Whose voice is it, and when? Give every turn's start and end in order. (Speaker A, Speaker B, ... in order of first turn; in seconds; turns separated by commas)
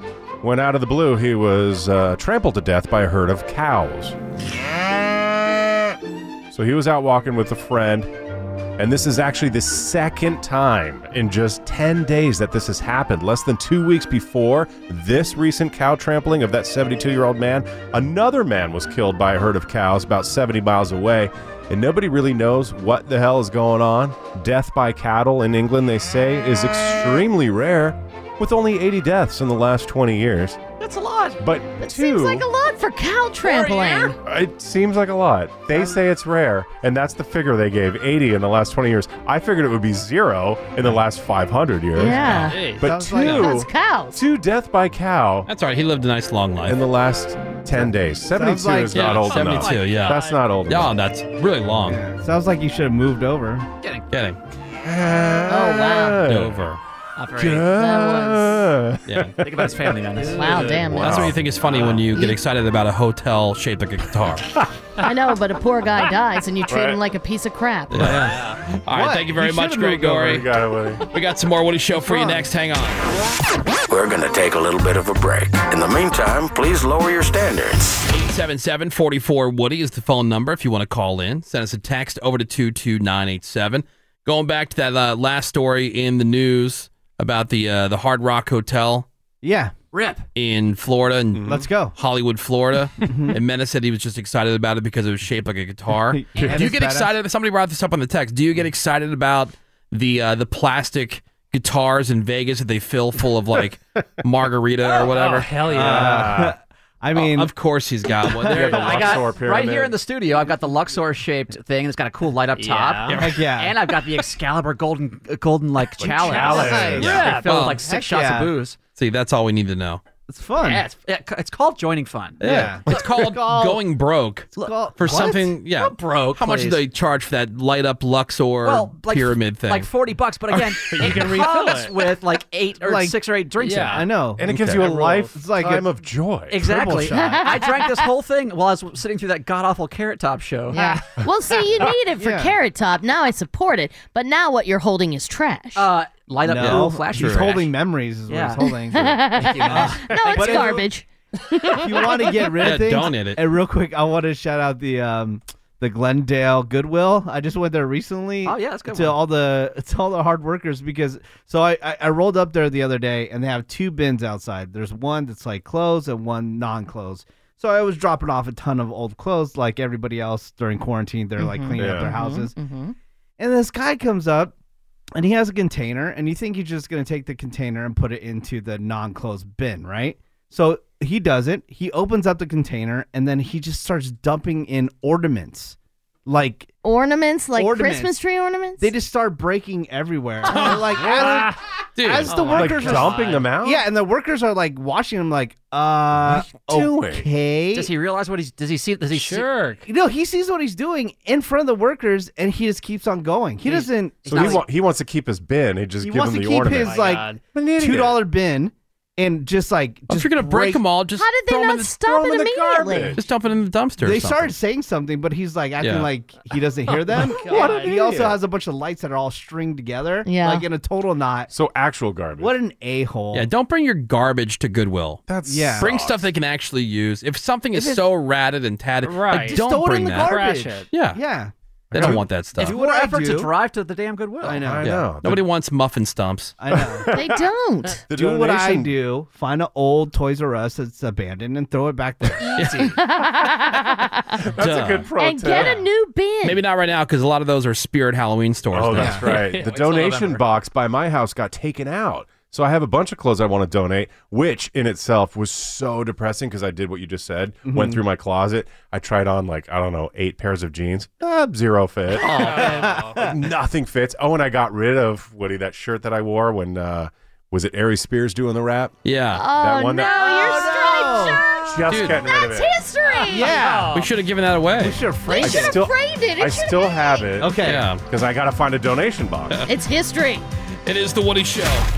Speaker A: 0.4-4.2, Speaker A: 6.5-8.1, Speaker A: 8.8-30.6, Speaker B: 30.8-31.4, Speaker A: 31.4-32.5, Speaker C: 31.8-34.1, Speaker B: 33.4-34.1, Speaker A: 34.2-45.5, Speaker D: 35.7-36.0, Speaker C: 42.0-44.2, Speaker E: 42.2-42.6, Speaker F: 42.5-42.9, Speaker D: 42.8-43.6, Speaker E: 45.5-46.8, Speaker A: 46.6-50.9, Speaker D: 47.7-49.2, Speaker E: 48.9-52.0, Speaker B: 49.1-50.0, Speaker F: 49.7-50.4, Speaker D: 51.9-53.7, Speaker B: 53.8-54.1, Speaker E: 54.1-54.4, Speaker A: 54.8-56.6, Speaker C: 55.5-56.2, Speaker E: 56.2-56.8, Speaker B: 57.2-57.7, Speaker A: 57.4-59.7, Speaker C: 57.7-58.6, Speaker E: 59.1-59.4, Speaker B: 59.4-60.8, Speaker C: 60.3-61.3, Speaker A: 60.6-62.1, Speaker E: 60.9-64.5, Speaker C: 62.1-62.4, Speaker C: 65.0-68.2, Speaker A: 66.7-67.0, Speaker E: 67.9-70.5, Speaker A: 68.0-68.4, Speaker D: 68.9-70.2, Speaker A: 70.0-71.1, Speaker E: 71.1-73.0, Speaker D: 72.1-72.4, Speaker G: 73.9-78.0, Speaker E: 78.1-89.1, Speaker D: 89.4-89.8, Speaker B: 89.9-90.2, Speaker E: 90.4-105.8, Speaker A: 91.3-91.7, Speaker D: 91.5-91.9, Speaker D: 93.0-93.4, Speaker D: 96.1-97.1, Speaker F: 104.8-106.4, Speaker A: 105.7-106.5, Speaker D: 105.7-107.5, Speaker E: 107.1-109.2, Speaker D: 108.2-108.8, Speaker A: 108.5-110.0, Speaker B: 108.5-118.8, Speaker F: 112.6-113.3, Speaker D: 113.2-113.8, Speaker A: 116.0-117.1, Speaker D: 116.0-118.5, Speaker F: 117.0-117.7, Speaker E: 117.0-117.8, Speaker E: 119.0-120.0, Speaker D: 120.3-120.8, Speaker B: 120.6-122.7, Speaker D: 122.4-123.8, Speaker E: 122.4-129.9, Speaker B: 124.6-126.8, Speaker D: 124.6-125.5, Speaker B: 128.6-134.1, Speaker A: 130.9-131.2, Speaker F: 131.0-132.1, Speaker D: 132.8-133.2, Speaker F: 133.6-134.1, Speaker D: 133.8-135.9, Speaker A: 134.4-136.6, Speaker E: 134.5-134.8, Speaker B: 136.5-141.0, Speaker D: 136.6-137.7, Speaker C: 137.1-138.1, Speaker C: 140.7-145.9, Speaker D: 142.2-142.6, Speaker B: 145.8-147.7, Speaker D: 146.4-150.9, Speaker E: 146.6-147.5, Speaker B: 148.3-148.6, Speaker C: 148.9-152.2, Speaker B: 149.2-150.8, Speaker D: 151.7-172.6, Speaker E: 152.6-153.4, Speaker B: 158.4-159.2, Speaker C: 171.4-173.0, Speaker A: 171.8-172.1, Speaker D: 173.4-174.5, Speaker D: 175.1-186.7, Speaker C: 186.8-188.9, Speaker D: 187.6-188.1, Speaker D: 188.8-197.9, Speaker F: 190.5-191.6, Speaker E: 192.0-192.3, Speaker F: 192.3-193.4, Speaker A: 192.5-193.8, Speaker A: 196.2-197.3, Speaker B: 197.7-199.5, Speaker F: 199.1-199.9, Speaker D: 199.8-204.6, Speaker B: 203.6-204.6, Speaker A: 204.3-208.2, Speaker D: 206.0-210.8, Speaker F: 206.6-207.4, Speaker E: 210.1-211.9, Speaker C: 211.2-213.2, Speaker A: 212.0-213.2, Speaker E: 213.2-214.5, Speaker D: 214.0-221.5, Speaker E: 215.8-216.1, Speaker F: 216.9-218.1, Speaker A: 217.5-218.4, Speaker C: 220.2-220.6, Speaker A: 221.5-222.6, Speaker D: 222.4-223.5, Speaker E: 223.3-225.2, Speaker A: 225.3-226.3, Speaker D: 225.4-225.9, Speaker E: 225.8-230.4, Speaker D: 227.7-228.1, Speaker F: 229.0-230.9, Speaker D: 229.3-233.5, Speaker E: 230.9-231.2, Speaker A: 231.9-232.2, Speaker E: 231.9-232.8, Speaker B: 232.6-234.7, Speaker D: 234.4-235.0, Speaker A: 234.5-235.4, Speaker E: 234.8-236.6, Speaker D: 236.6-237.1, Speaker A: 236.7-237.4, Speaker C: 237.1-238.0, Speaker A: 238.1-239.0, Speaker D: 238.1-242.5, Speaker B: 242.6-243.0, Speaker E: 242.6-242.9, Speaker C: 242.8-244.4, Speaker A: 244.6-245.8, Speaker E: 244.6-245.7, Speaker C: 245.2-246.6, Speaker E: 246.4-249.6, Speaker A: 248.7-268.9, Speaker F: 249.2-250.3, Speaker D: 257.7-258.0, Speaker B: 262.1-262.6, Speaker F: 262.2-263.2, Speaker D: 262.5-263.3, Speaker E: 269.1-269.4, Speaker C: 269.3-273.6, Speaker A: 269.5-270.4, Speaker D: 270.0-271.6, Speaker A: 271.6-272.8, Speaker E: 271.9-272.2, Speaker F: 273.0-274.1, Speaker D: 273.3-274.0, Speaker E: 273.9-275.0, Speaker D: 274.8-275.8, Speaker C: 275.3-277.4, Speaker A: 275.4-279.6, Speaker D: 277.4-277.9, Speaker E: 277.6-278.0, Speaker C: 279.7-280.4, Speaker E: 280.9-281.9